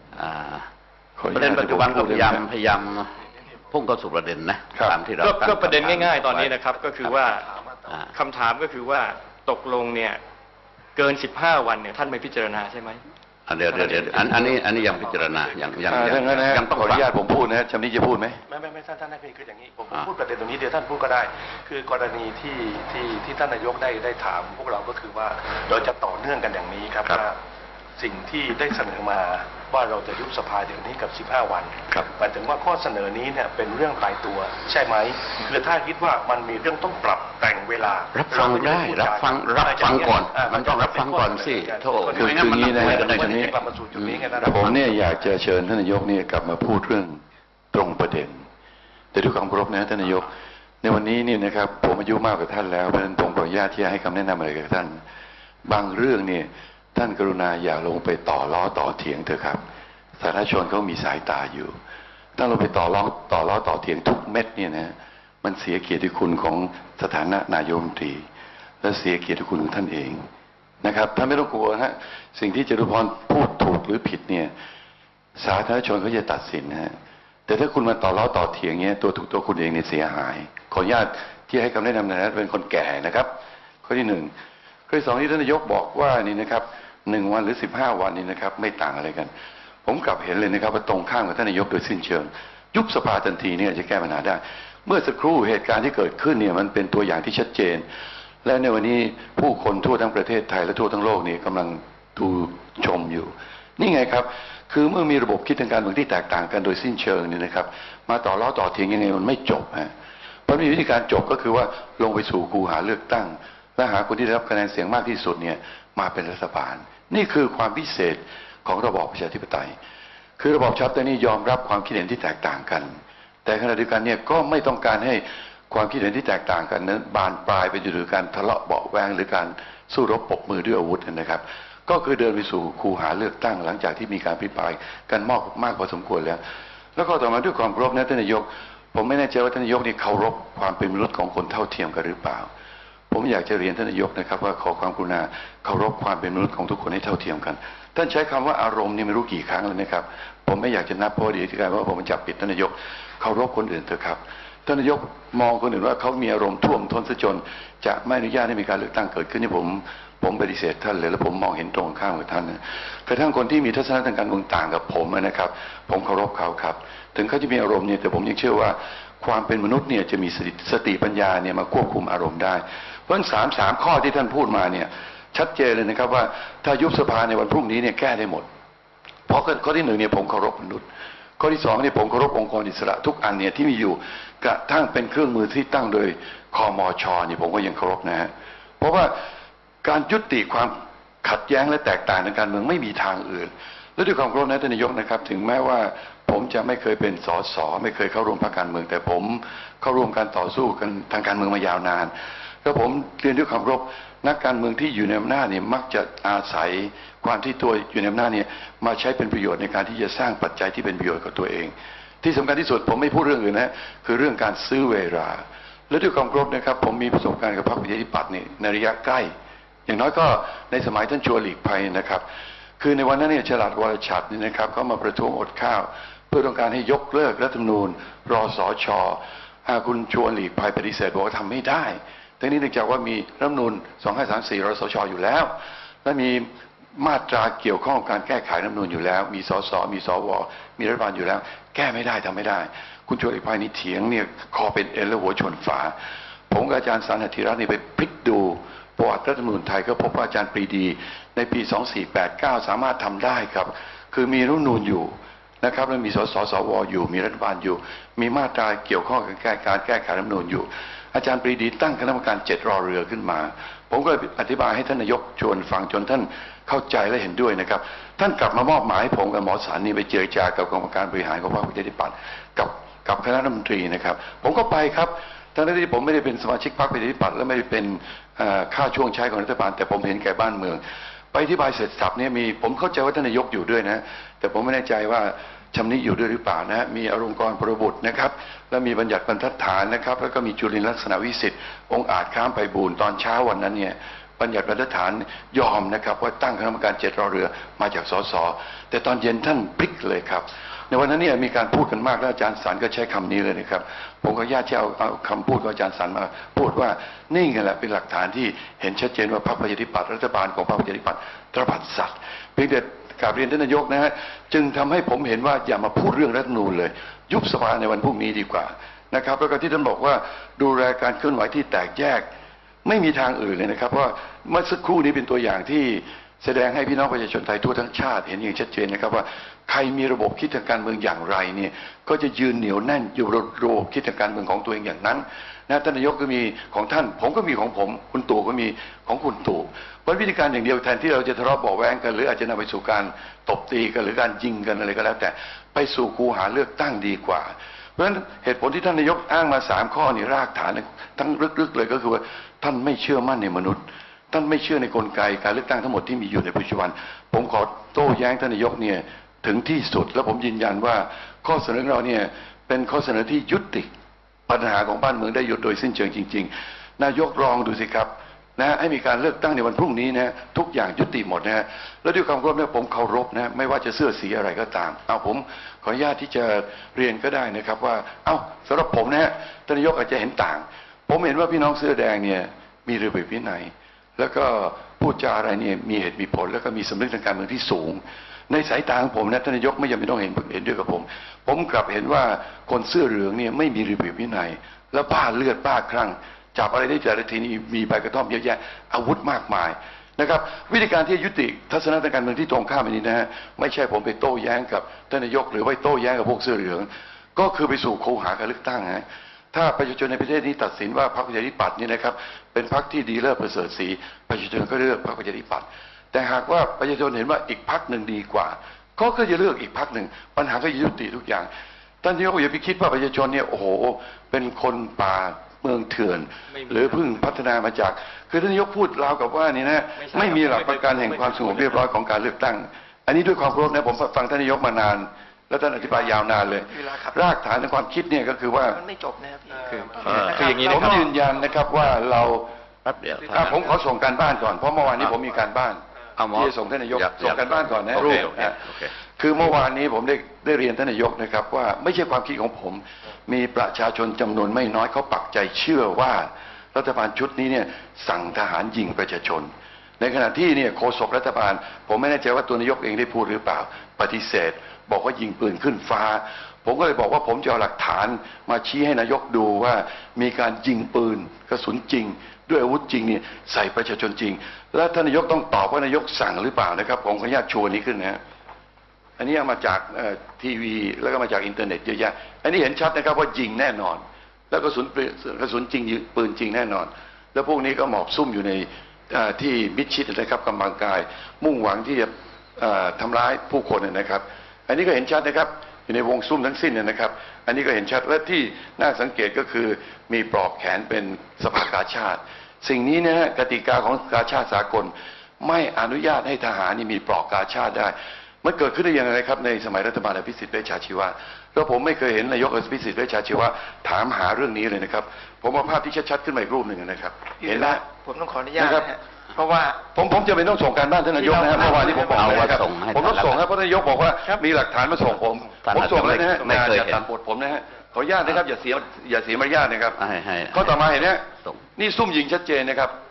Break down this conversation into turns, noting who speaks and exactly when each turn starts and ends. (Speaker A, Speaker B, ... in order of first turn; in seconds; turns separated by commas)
Speaker A: 0.1-0.7, Speaker B: 1.2-2.5, Speaker A: 1.3-7.2, Speaker B: 4.7-5.0, Speaker C: 5.2-7.5, Speaker A: 7.9-8.1, Speaker C: 8.1-10.2, Speaker C: 11.0-13.0, Speaker A: 13.5-17.1, Speaker C: 13.7-14.3, Speaker D: 14.1-16.4, Speaker B: 15.9-18.4, Speaker D: 18.5-27.4, Speaker D: 28.0-45.1, Speaker A: 38.1-44.2, Speaker B: 42.1-43.5, Speaker B: 44.4-47.2, Speaker B: 47.7-48.4, Speaker B: 49.1-50.3, Speaker B: 50.8-55.0, Speaker B: 55.6-59.6, Speaker B: 60.2-61.8, Speaker B: 62.4-68.2, Speaker B: 68.8-70.2, Speaker B: 70.8-74.5, Speaker B: 75.4-76.9, Speaker B: 77.5-83.3, Speaker B: 83.8-84.3, Speaker B: 84.9-89.3, Speaker B: 89.8-97.9, Speaker B: 98.4-109.9, Speaker B: 110.5-119.8, Speaker B: 120.4-136.4, Speaker B: 137.0-142.5, Speaker B: 143.1-178.5, Speaker B: 179.3-180.8, Speaker B: 181.4-189.1, Speaker B: 189.8-202.1, Speaker B: 202.6-219.3, Speaker B: 219.9-222.2, Speaker B: 222.8-235.5, Speaker B: 236.0-245.9, Speaker B: 246.5-280.8, Speaker B: 281.3-322.3, Speaker B: 322.8-363.9, Speaker B: 364.5-421.5, Speaker B: 422.0-438.8, Speaker C: 426.5-427.0, Speaker C: 430.0-431.9, Speaker E: 436.7-437.2, Speaker E: 438.7-441.0, Speaker C: 439.6-441.1, Speaker A: 440.1-440.5, Speaker B: 440.2-442.5, Speaker A: 442.9-443.6, Speaker B: 443.3-445.8, Speaker A: 446.2-448.9, Speaker B: 446.3-448.6, Speaker B: 449.2-478.2, Speaker B: 479.2-517.8, Speaker E: 517.4-519.8, Speaker B: 518.6-519.0, Speaker B: 519.9-530.0, Speaker E: 521.2-522.4, Speaker A: 522.0-523.4, Speaker A: 525.6-527.1, Speaker A: 530.0-531.6, Speaker B: 530.5-532.9